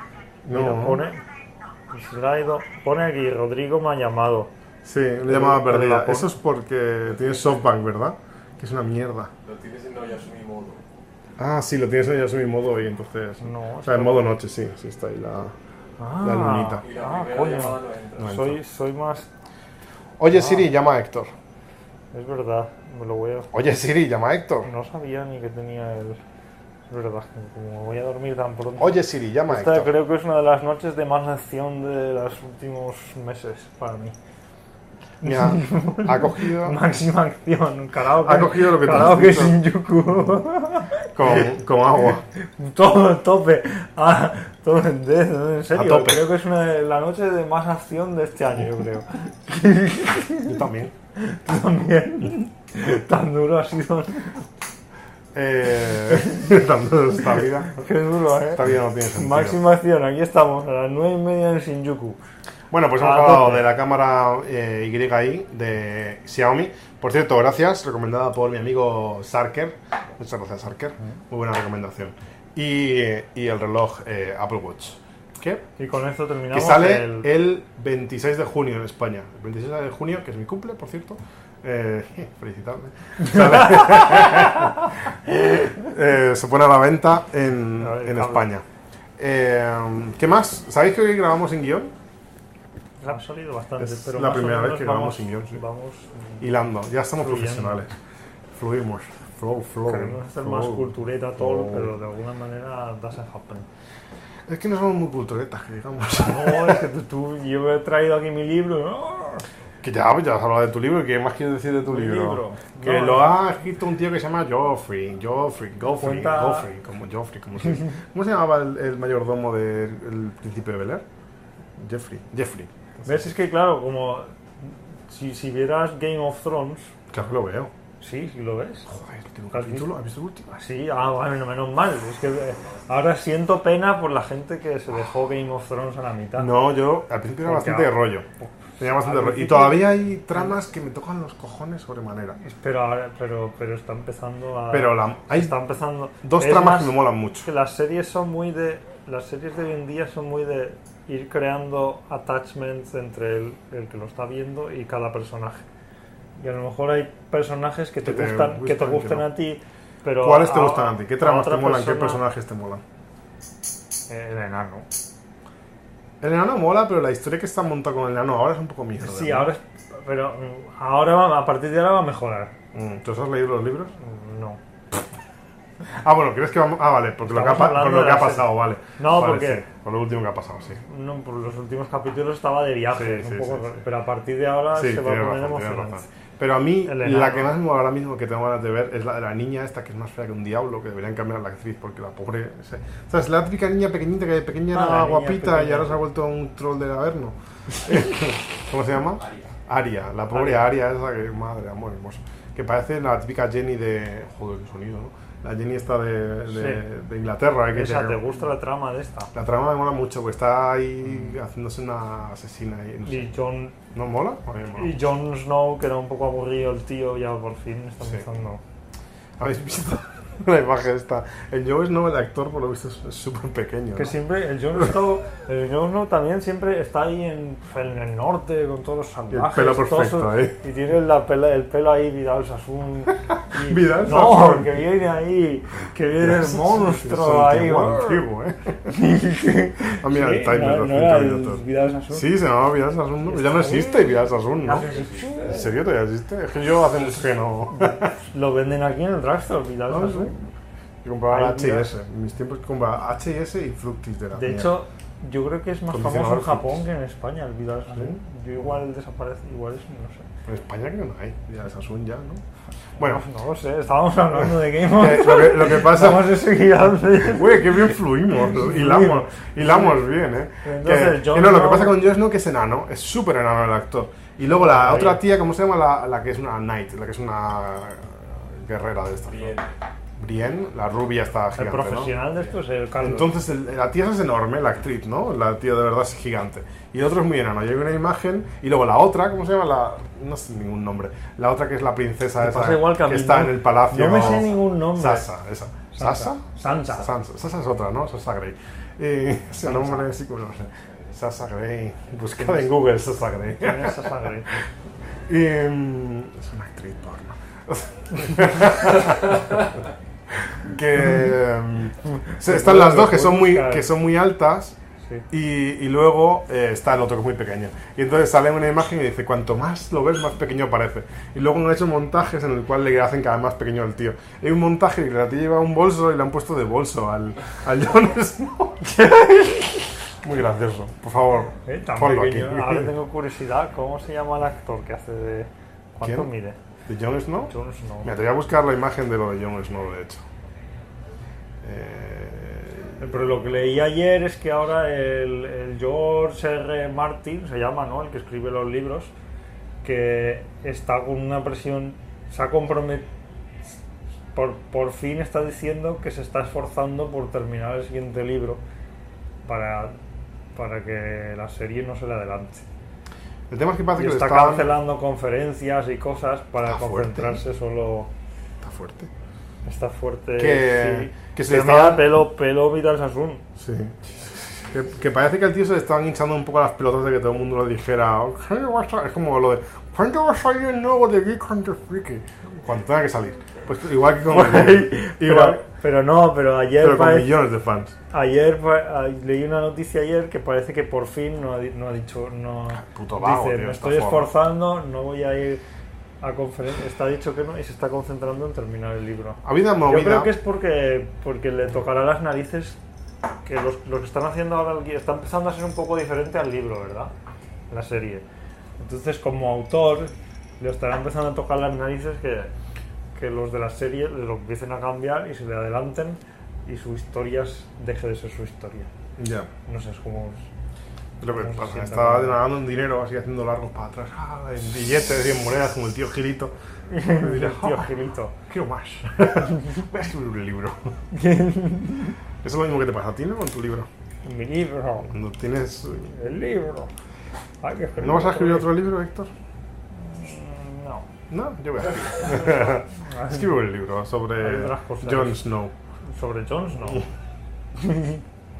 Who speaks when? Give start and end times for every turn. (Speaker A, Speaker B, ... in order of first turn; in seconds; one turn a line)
Speaker A: 0.4-1.1
Speaker B: 0.5-1.2
Speaker B: 1.9-4.5
Speaker A: 4.8-9.3
Speaker B: 5.2-6.3
Speaker C: 9.4-10.8
Speaker A: 11.4-15.5
Speaker B: 13.4-14.3
Speaker B: 16.0-19.3
Speaker A: 16.2-16.9
Speaker C: 16.8-18.3
Speaker A: 18.2-18.6
Speaker A: 20.2-21.3
Speaker B: 20.3-20.6
Speaker B: 22.1-23.5
Speaker A: 23.5-24.7
Speaker B: 24.6-26.2
Speaker B: 26.9-28.9
Speaker A: 28.8-29.9
Speaker B: 29.5-34.1
Speaker A: 35.2-36.8
Speaker B: 35.2-41.5
Speaker A: 38.2-39.6
Speaker A: 41.1-42.2
Speaker B: 42.5-50.6
Speaker A: 45.7-46.3
Speaker A: 50.5-50.9
Speaker B: 51.1-54.5
Speaker A: 55.3-57.9
Speaker B: 57.8-62.2
Speaker A: 58.5-59.6
Speaker A: 62.7-75.7
Speaker B: 63.0-63.6
Speaker B: 75.8-77.3
Speaker A: 76.5-88.6
Speaker B: 87.8-88.5
Speaker A: 89.2-91.9
Speaker B: 93.0-96.5
Speaker A: 93.8-95.6
Speaker A: 96.4-97.9
Speaker B: 97.2-97.9
Speaker A: 98.5-101.9
Speaker B: 99.9-103.7
Speaker A: 104.5-106.8
Speaker B: 106.2-109.4
Speaker A: 109.8-121.0
Speaker B: 111.9-113.3
Speaker B: 116.0-116.7
Speaker A: 121.8-123.3
Speaker B: 123.0-126.9
Speaker A: 127.1-127.7
Speaker B: 128.0-128.9
Speaker A: 128.9-130.5
Speaker B: 129.5-129.9
Speaker B: 130.5-136.5
Speaker A: 136.4-138.2
Speaker B: 137.4-140.5
Speaker A: 138.8-142.4
Speaker B: 142.4-155.6
Speaker A: 144.7-145.6
Speaker A: 146.2-147.5
Speaker B: 156.4-162.2
Speaker A: 158.0-159.3
Speaker A: 160.2-162.8
Speaker B: 164.1-164.9
Speaker A: 166.2-169.5
Speaker B: 169.0-172.5
Speaker A: 172.7-173.9
Speaker B: 174.0-174.6
Speaker A: 175.9-180.8
Speaker B: 177.2-179.6
Speaker B: 180.8-186.1
Speaker A: 182.9-183.8
Speaker A: 184.7-208.2
Speaker B: 186.8-187.5
Speaker B: 194.7-196.0
Speaker B: 200.3-200.6
Speaker B: 206.5-206.8
Speaker B: 207.7-209.3
Speaker A: 209.3-213.3
Speaker B: 213.0-213.8
Speaker A: 213.9-214.9
Speaker B: 214.8-218.6
Speaker A: 219.4-224.1
Speaker B: 223.9-238.2
Speaker A: 229.3-230.6
Speaker A: 233.5-234.8
Speaker A: 236.2-238.9
Speaker B: 238.9-242.3
Speaker A: 239.8-244.9
Speaker B: 243.2-245.7
Speaker C: 244.7-245.5
Speaker A: 245.4-248.1
Speaker B: 247.7-250.4
Speaker A: 249.9-250.3
Speaker A: 251.0-254.7
Speaker B: 251.3-251.9
Speaker B: 254.3-260.3
Speaker A: 255.9-256.8
Speaker A: 257.9-258.2
Speaker A: 260.4-262.4
Speaker A: 263.0-263.2
Speaker B: 263.0-272.0
Speaker A: 264.4-266.4
Speaker A: 267.2-279.6
Speaker B: 274.5-275.2
Speaker C: 279.3-279.7
Speaker A: 280.2-282.1
Speaker B: 281.6-283.3
Speaker A: 283.0-304.6
Speaker B: 292.4-295.3
Speaker B: 295.9-297.1
Speaker B: 299.6-300.1
Speaker B: 303.6-304.5
Speaker A: 305.3-314.8
Speaker B: 312.2-313.9
Speaker A: 315.3-332.9
Speaker B: 331.6-336.6
Speaker A: 336.0-336.3
Speaker A: 336.9-337.5
Speaker B: 337.5-338.1
Speaker A: 338.0-340.2
Speaker A: 341.6-343.2
Speaker B: 343.0-349.1
Speaker B: 349.8-353.1
Speaker B: 354.3-358.6
Speaker B: 359.4-359.9
Speaker B: 360.5-362.6
Speaker A: 363.5-364.8
Speaker B: 363.9-368.1
Speaker A: 366.6-367.4
Speaker A: 368.6-369.1
Speaker B: 369.6-373.4
Speaker A: 370.4-372.1
Speaker A: 373.6-385.6
Speaker B: 384.3-387.3
Speaker A: 386.8-387.9
Speaker B: 388.1-395.6
Speaker A: 392.7-394.3
Speaker B: 396.2-402.8
Speaker A: 399.4-400.3
Speaker B: 403.4-407.1
Speaker B: 407.7-408.2
Speaker B: 408.8-412.5
Speaker B: 413.1-418.9
Speaker A: 419.2-419.5
Speaker B: 419.6-420.5
Speaker A: 421.2-426.5
Speaker B: 421.2-422.4
Speaker B: 426.9-428.4
Speaker A: 427.1-427.9
Speaker A: 428.5-431.0
Speaker B: 431.1-432.2
Speaker A: 432.4-433.9
Speaker B: 434.2-435.1
Speaker A: 435.1-436.2
Speaker B: 436.1-436.9
Speaker B: 437.6-438.7
Speaker A: 438.0-439.3
Speaker B: 439.9-441.1
Speaker A: 441.3-445.7
Speaker B: 443.0-443.5
Speaker B: 444.4-445.4
Speaker B: 446.1-447.0
Speaker B: 447.7-448.2